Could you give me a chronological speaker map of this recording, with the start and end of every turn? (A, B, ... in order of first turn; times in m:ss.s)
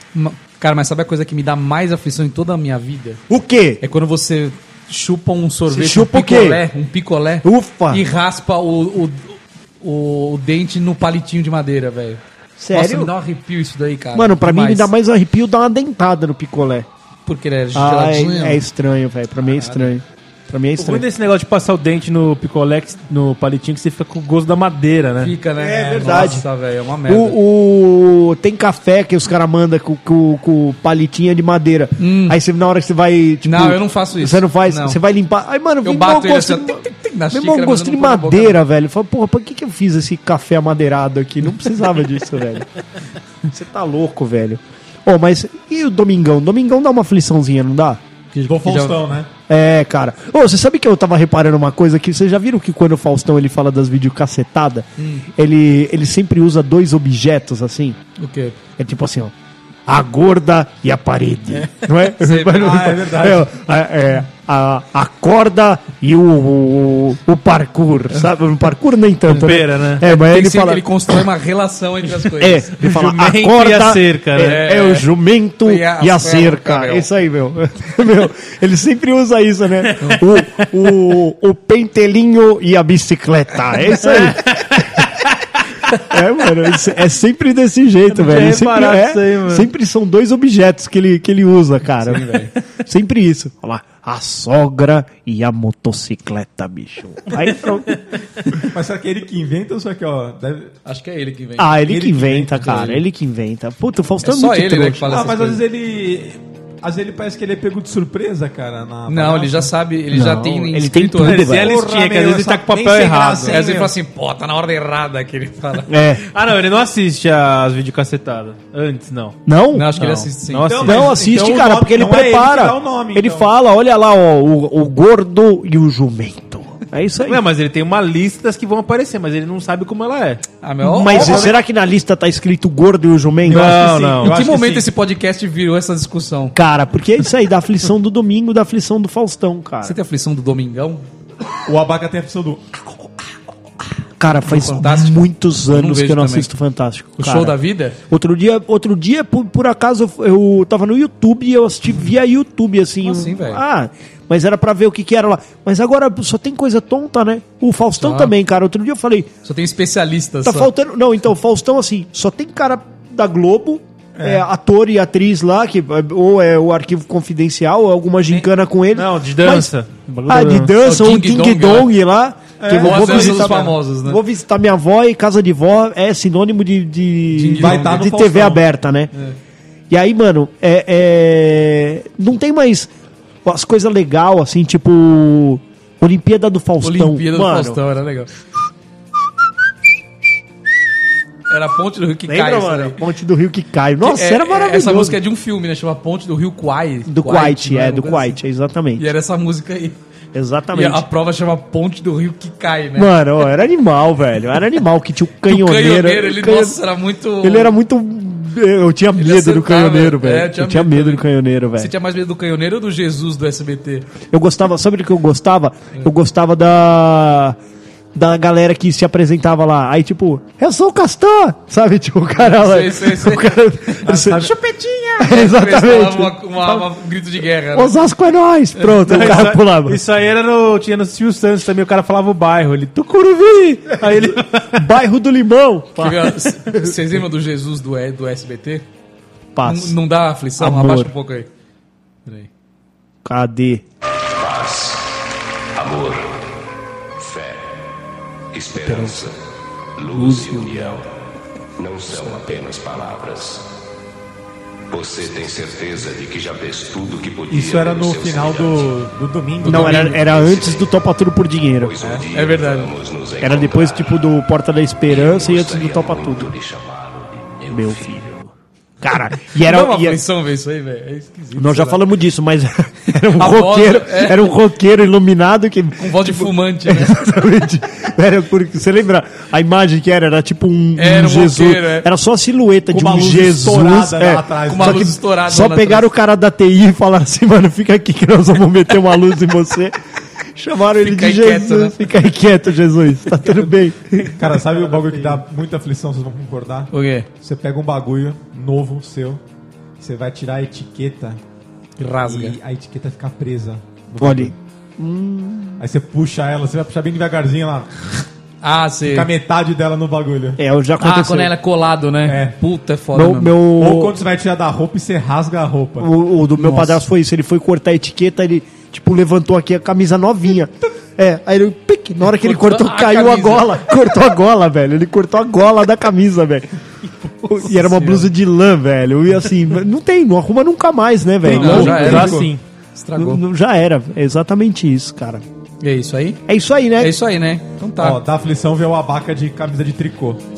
0:00.1-0:03.2 A
0:03.3-0:03.8 B
0:03.8-0:12.2 A
0:05.7-0:06.6 B
0:07.4-0:08.0 B
0:12.6-0:13.1 B
0:12.7-0:14.9 A
0:14.1-0:16.9 B
0:17.3-0:18.6 A
0:17.7-0:21.0 B
0:19.5-0:19.9 A
0:20.8-0:25.3 C
0:25.2-0:27.4 A
0:25.6-0:26.4 D
0:25.7-0:26.4 B
0:27.1-0:42.7 B
0:32.0-0:32.4 A
0:33.4-0:35.0 A
0:35.8-0:38.6 A
0:43.4-0:48.0 B
0:48.3-0:49.0 A
0:48.5-0:49.3 D
0:49.5-0:58.0 B
0:55.0-0:55.3 A
0:58.2-0:58.6 A
0:58.8-0:59.3 B
0:59.9-1:11.2 B
1:02.1-1:02.7 A
1:02.5-1:03.5 D
1:09.3-1:10.0 C
1:10.0-1:12.7 A
1:12.1-1:25.1 B
1:12.8-1:14.6 C
1:14.4-1:15.1 A
1:15.6-1:17.1 A
1:24.3-1:24.6 C
1:25.9-1:38.0 B
1:28.1-1:29.7 C
1:32.0-1:32.5 A
1:38.5-1:40.7 D
1:40.9-1:41.7 A
1:41.6-1:45.3 B
1:41.8-1:43.0 D
1:44.2-1:45.6 A
1:45.1-1:49.7 D
1:49.1-1:51.5 A
1:50.1-1:51.7 B
1:51.2-1:53.6 C
1:51.5-1:53.9 D
1:53.4-1:55.9 A
1:55.9-1:56.3 B
1:56.3-1:59.4 C
1:59.4-2:00.1 B
1:59.7-2:00.8 A
2:00.0-2:01.1 C
2:00.7-2:03.5 D
2:00.8-2:07.4 B
2:07.2-2:10.4 C
2:10.6-2:11.6 A
2:10.8-2:13.9 B
2:11.0-2:11.6 D
2:13.4-2:14.9 D
2:13.5-2:14.4 C
2:14.2-2:16.6 A
2:16.6-2:20.0 B
2:19.8-2:21.0 A
2:21.6-2:22.8 D
2:24.2-2:27.6 B
2:24.4-2:26.5 A
2:27.2-2:28.0 A
2:28.1-2:39.3 B
2:33.0-2:33.6 A
2:38.0-2:38.3 A
2:39.4-2:40.7 A
2:40.4-2:49.7 B
2:44.2-2:44.4 D
2:48.9-2:50.7 C
2:50.3-2:59.1 B
2:50.8-2:51.9 A
2:52.6-2:53.7 D
2:52.7-2:54.2 A
2:57.3-2:58.0 A
2:57.6-2:58.6 D
2:59.9-3:02.9 B
3:03.4-3:07.8 B
3:06.8-3:08.3 A
3:11.5-3:13.0 A
3:12.3-3:15.2 B
3:14.0-3:18.4 A
3:17.1-3:19.1 B
3:19.0-3:20.0 A
3:20.3-3:21.0 B
3:20.7-3:23.1 A
3:23.0-3:26.8 B
3:25.5-3:27.7 A
3:27.4-3:31.9 B
3:29.2-3:31.2 A
3:31.8-3:34.1 A
3:34.3-3:37.6 B
3:38.1-3:44.5 B
3:42.3-3:48.0 A
3:45.2-3:46.9 B
3:47.7-3:50.0 B
3:49.0-3:54.9 C
3:54.0-3:57.2 B
3:56.0-3:58.8 A
3:59.6-4:00.0 B
3:59.6-4:01.5 A
4:00.6-4:01.1 B
4:03.2-4:03.8 B
4:04.3-4:05.2 E
4:05.7-4:06.5 E
4:07.2-4:07.8 E
4:08.5-4:09.4 E
4:08.7-4:09.2 B
4:10.0-4:11.1 E
4:10.1-4:11.0 B
4:11.8-4:13.7 E
4:14.9-4:19.0 E
4:17.5-4:20.2 D
4:19.6-4:21.9 B
4:19.6-4:20.2 A
4:20.1-4:20.9 E
4:21.7-4:24.2 E
4:22.0-4:22.9 A
4:23.4-4:26.6 B
4:25.1-4:28.3 E
4:27.7-4:28.5 B
4:29.0-4:30.2 B
4:29.5-4:32.0 A
4:31.6-4:50.0 B
4:33.3-4:34.5 A
4:36.0-4:37.2 A
4:41.0-4:42.1 A
4:42.9-4:45.2 D
4:44.7-4:46.1 A
4:50.5-4:54.4 B
4:51.0-4:52.1 A
4:53.4-4:55.4 C
4:54.4-4:59.4 D
4:56.9-4:57.3 A
5:00.0-5:01.4 D
5:02.0-5:02.6 A
5:02.3-5:04.6 D
5:04.2-5:05.8 B
5:05.8-5:08.2 D
5:08.6-5:09.3 A
5:09.0-5:10.6 D
5:10.6-5:11.5 B
5:11.0-5:13.6 A
5:12.2-5:12.6 D
5:13.1-5:14.2 B
5:13.8-5:16.1 D
5:16.0-5:26.7 B
5:16.6-5:17.0 A
5:22.3-5:23.9 A
5:27.4-5:32.5 B
5:27.6-5:28.3 A
5:31.4-5:32.6 C
5:31.5-5:32.4 A
5:31.6-5:32.5 D
5:32.9-5:33.4 A
5:33.2-5:35.4 B
5:35.8-5:36.4 A
5:36.4-5:37.2 B
5:37.0-5:38.2 A
5:38.0-5:40.4 D